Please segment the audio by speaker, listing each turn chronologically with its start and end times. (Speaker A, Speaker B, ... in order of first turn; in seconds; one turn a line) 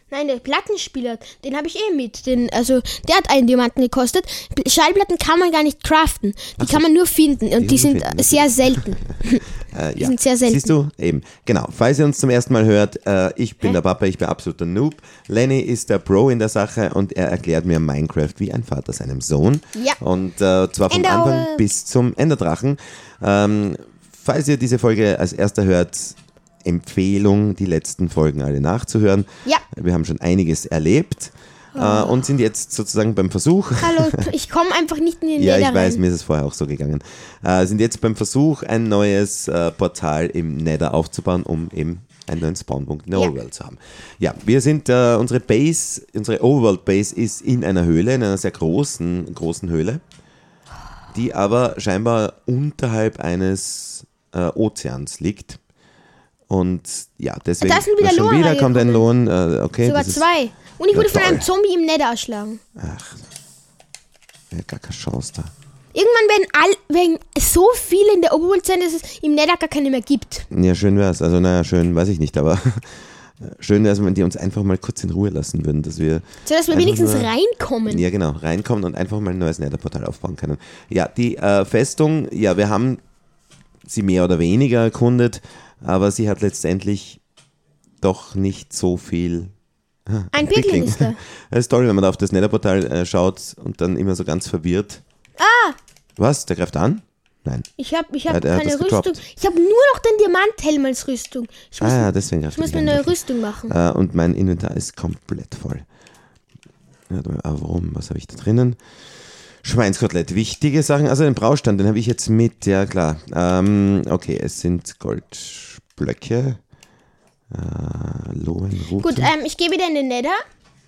Speaker A: 0.1-9.4
Speaker B: 6.6-6.8
Speaker B: 7.5-9.1
Speaker B: 9.7-34.2
Speaker A: 10.0-10.7
Speaker A: 20.9-21.6
Speaker A: 31.7-32.2
Speaker A: 33.8-36.0
Speaker B: 35.4-50.0
Speaker B: 51.1-55.6
Speaker B: 56.5-60.3
Speaker A: 57.6-59.0
Speaker A: 59.8-62.6
Speaker B: 60.9-61.5
Speaker B: 62.8-63.2
Speaker B: 64.5-65.5
Speaker A: 65.9-70.5
Speaker B: 70.5-77.3
Speaker A: 76.5-78.0
Speaker B: 77.9-83.0
Speaker B: 83.8-87.2
Speaker B: 88.0-89.5
Speaker B: 90.1-95.0
Speaker A: 90.3-91.2
Speaker A: 95.4-95.8
Speaker B: 96.2-97.7
Speaker A: 97.8-103.7
Speaker B: 98.3-99.2
Speaker B: 101.8-105.8
Speaker B: 107.1-108.8
Speaker B: 109.6-116.6
Speaker B: 117.5-119.3
Speaker A: 119.0-120.4